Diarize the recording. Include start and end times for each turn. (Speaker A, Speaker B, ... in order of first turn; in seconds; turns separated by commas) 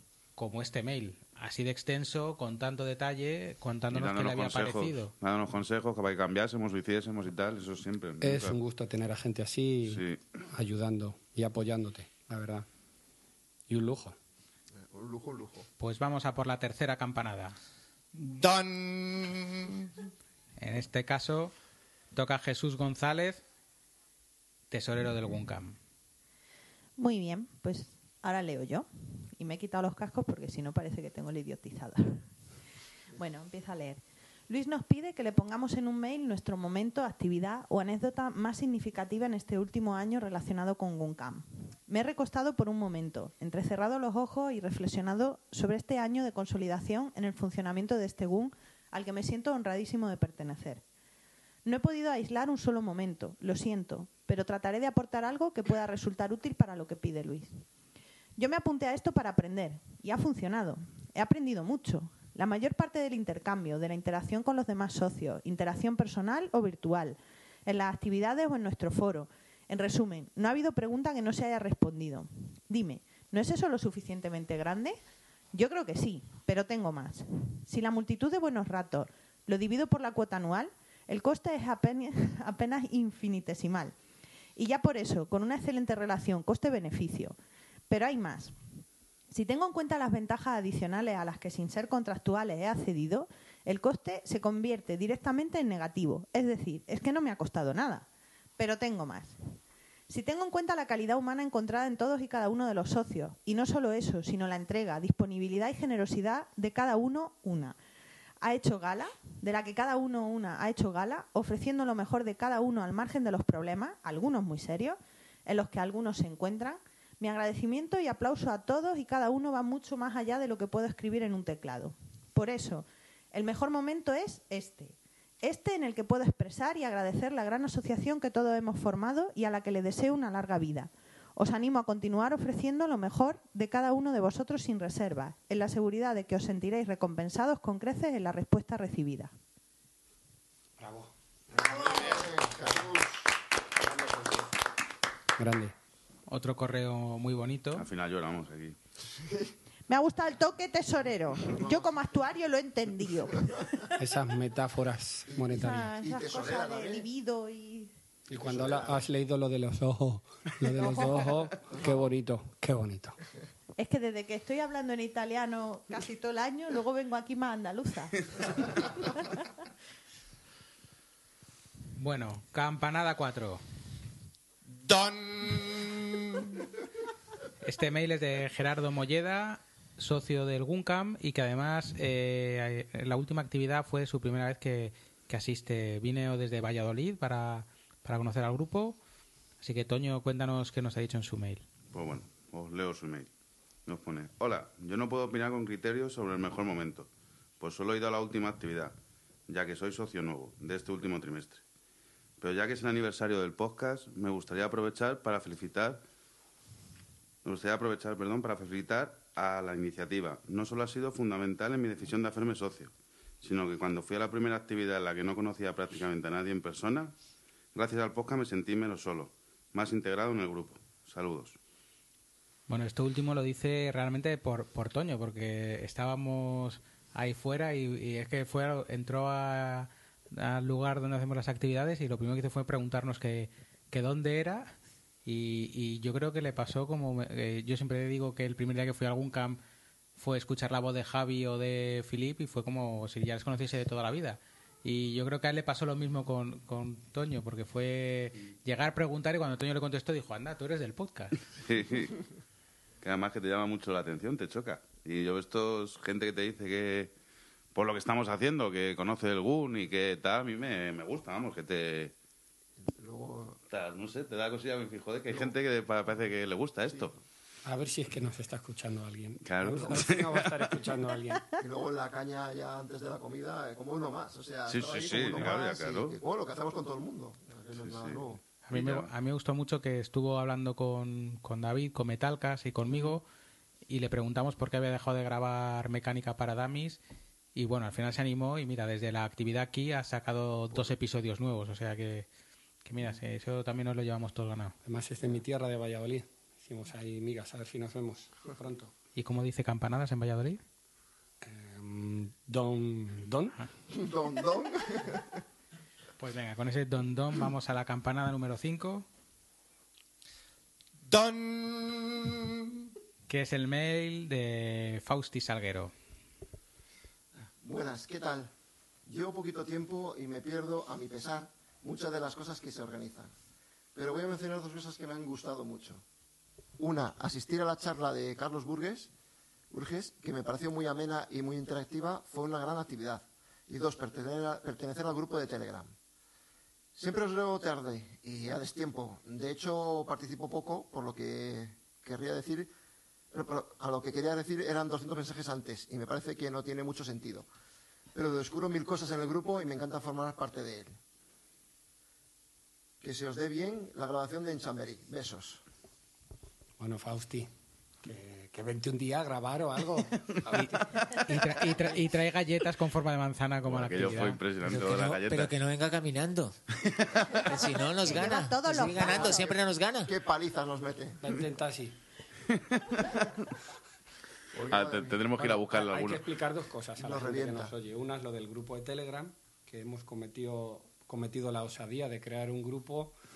Speaker A: 0.4-5.1, Speaker B: 3.9-8.6, Speaker C: 8.2-12.7, Speaker B: 9.9-10.2, Speaker C: 13.7-14.2, Speaker D: 14.9-15.7, Speaker A: 15.8-17.6, Speaker E: 18.1-20.0, Speaker A: 20.6-21.5, Speaker A: 22.1-23.4, Speaker A: 24.7-25.8, Speaker F: 27.0-32.2, Speaker F: 33.1-50.8, Speaker F: 51.6-57.6, Speaker F: 58.4-75.0, Speaker F: 75.5-84.0, Speaker F: 84.6-87.4, Speaker F: 87.9-88.5, Speaker F: 89.3-98.1, Speaker F: 98.6-99.4, Speaker F: 100.1-107.8, Speaker F: 108.4-139.3, Speaker C: 140.8-141.1, Speaker D: 141.5-143.2, Speaker C: 143.8-144.4, Speaker C: 145.4-145.7, Speaker A: 146.3-147.9, Speaker B: 147.8-148.8, Speaker D: 149.2-149.5, Speaker F: 149.9-153.7, Speaker D: 151.4-151.9, Speaker C: 154.0-155.9, Speaker D: 155.3-157.1, Speaker F: 155.5-157.9, Speaker C: 158.3-163.2, Speaker D: 158.3-159.0, Speaker F: 160.7-161.3, Speaker D: 161.7-162.1, Speaker F: 163.8-169.4, Speaker A: 172.0-173.6, Speaker E: 174.7-176.7, Speaker A: 177.6-189.0, Speaker A: 189.6-191.6, Speaker B: 191.9-193.3, Speaker B: 193.9-197.1, Speaker B: 197.6-198.9, Speaker B: 199.5-201.6, Speaker B: 202.4-206.0, Speaker B: 207.4-217.1, Speaker B: 217.8-221.6, Speaker A: 222.7-234.7, Speaker A: 235.2-239.6, Speaker A: 240.2-251.4, Speaker B: 251.6-252.2, Speaker B: 253.0-257.1, Speaker B: 257.8-262.1, Speaker D: 262.9-263.6, Speaker B: 263.7-267.2, Speaker D: 265.3-265.5, Speaker C: 267.6-271.5, Speaker B: 269.4-270.7, Speaker D: 271.6-278.4, Speaker B: 274.7-276.2, Speaker B: 277.8-279.1, Speaker A: 278.7-283.2, Speaker A: 283.9-287.0, Speaker A: 287.6-292.3, Speaker A: 292.9-294.8, Speaker C: 294.8-298.9, Speaker A: 299.2-300.6, Speaker C: 301.4-303.6, Speaker D: 303.9-305.4, Speaker A: 306.2-309.1, Speaker E: 311.1-312.9, Speaker A: 313.3-315.9, Speaker D: 317.6-318.5, Speaker D: 319.1-323.3, Speaker D: 323.9-326.0, Speaker D: 326.8-329.1, Speaker D: 329.7-335.9, Speaker D: 336.9-342.7, Speaker D: 343.3-347.5, Speaker D: 348.1-351.0, Speaker D: 353.0-355.6, Speaker C: 356.8-357.5, Speaker C: 358.0-361.7, Speaker A: 360.6-364.4, Speaker B: 363.7-365.6, Speaker G: 364.6-366.6, Speaker G: 367.4-370.1, Speaker F: 368.0-369.5, Speaker D: 369.0-371.2, Speaker C: 371.2-371.9, Speaker D: 374.5-375.3, Speaker B: 374.7-376.3, Speaker C: 375.4-383.1, Speaker D: 377.0-377.7